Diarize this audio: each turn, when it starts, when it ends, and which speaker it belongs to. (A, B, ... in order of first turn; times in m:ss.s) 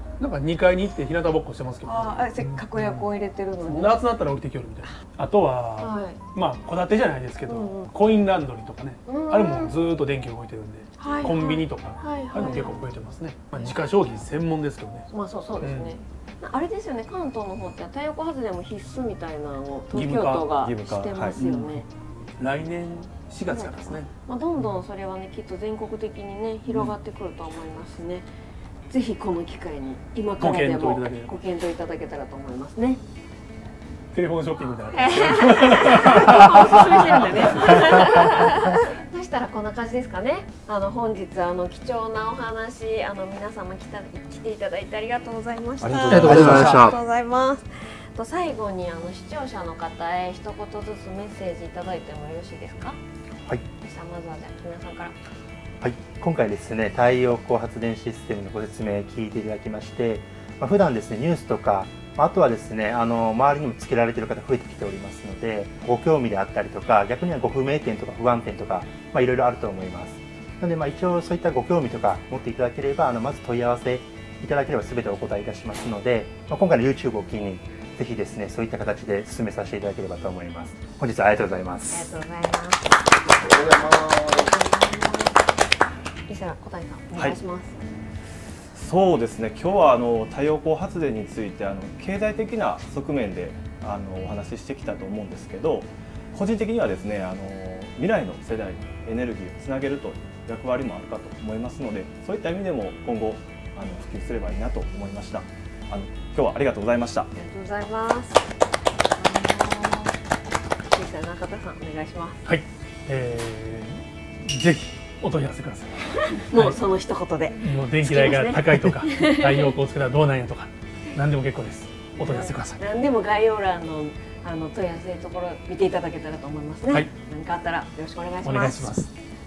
0:00.2-0:03.1 A
0:01.8-0:04.0 B
0:03.6-0:15.1 A
0:05.8-0:06.2 B
0:07.5-0:07.9 B
0:09.1-0:09.8 B
0:11.0-0:12.8 B
0:15.1-0:21.8 B
0:15.6-0:15.9 A
0:19.9-0:20.5 A
0:20.6-0:21.4 C
0:21.4-0:21.8 A
0:22.4-0:24.1 A
0:23.5-0:28.3 B
0:28.9-0:33.0 B
0:30.4-0:31.4 A
0:34.1-0:38.4 A
0:34.9-0:53.0 B
0:45.8-0:46.6 C
0:46.0-0:47.0 D
0:46.1-0:46.8 A
0:53.8-0:55.2 B
0:55.8-1:22.1 D
1:21.9-1:25.4 B
1:26.3-1:27.8 B
1:28.7-1:47.3 C
1:47.4-1:48.5 B
1:49.2-1:50.2 B
1:50.9-1:52.4 B
1:52.4-1:56.8 A
1:56.2-1:59.7 B
1:57.6-2:02.8 A
2:02.2-2:09.0 B
2:08.4-2:09.1 A